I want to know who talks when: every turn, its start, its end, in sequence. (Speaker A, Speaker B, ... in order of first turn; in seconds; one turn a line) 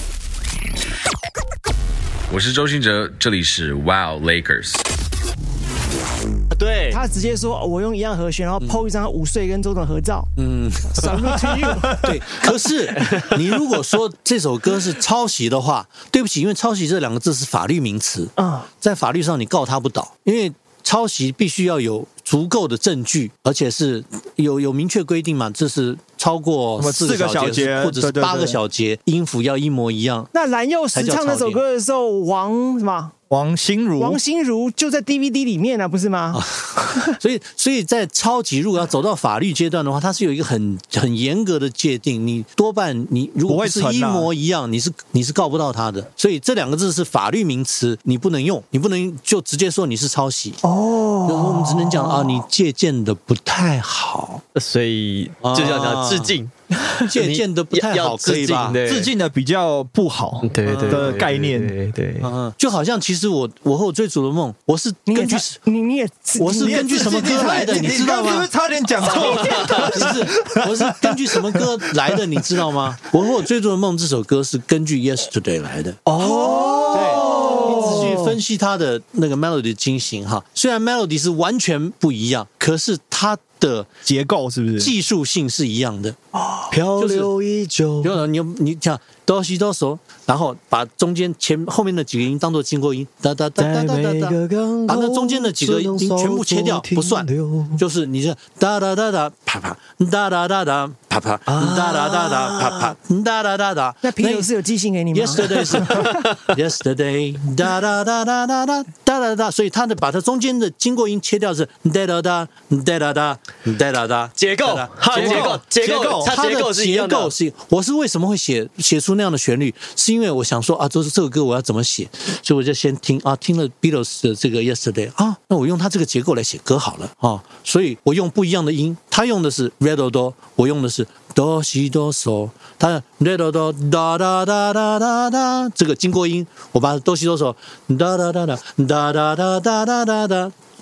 Speaker A: 2.3-4.8
Speaker B: 6.5-7.0
Speaker C: 6.9-10.3
Speaker D: 10.4-30.3
Speaker C: 10.9-12.0
Speaker E: 11.5-12.2
Speaker B: 13.0-13.3
Speaker C: 18.4-18.7
Speaker E: 26.8-28.6
Speaker C: 30.3-33.1
Speaker D: 30.9-31.6
Speaker E: 33.3-34.2
Speaker C: 34.0-37.1
Speaker D: 36.3-50.6
Speaker E: 43.5-44.3
Speaker C: 50.6-52.4
Speaker D: 51.2-54.4
Speaker B: 54.5-59.1
Speaker D: 55.4-56.3
Speaker D: 57.0-58.8
Speaker E: 58.8-61.7
Speaker B: 60.4-62.3
Speaker D: 60.6-61.2
Speaker D: 62.2-65.6
Speaker C: 65.1-67.4
Speaker D: 66.4-68.5
Speaker E: 66.6-72.6
Speaker B: 69.1-69.8
Speaker D: 69.1-76.1
Speaker B: 76.1-76.8
Speaker E: 76.1-78.1
Speaker C: 76.2-78.0
Speaker D: 76.9-83.9
Speaker E: 84.0-84.9
Speaker D: 84.8-86.2
Speaker C: 86.4-86.6
Speaker B: 86.7-88.2
Speaker D: 87.0-87.3
Speaker D: 88.0-94.3
Speaker B: 93.6-97.8
Speaker D: 94.9-104.5
Speaker B: 101.5-102.9
Speaker C: 104.0-106.2
Speaker D: 105.1-140.5
Speaker B: 114.4-117.3
Speaker E: 115.1-116.3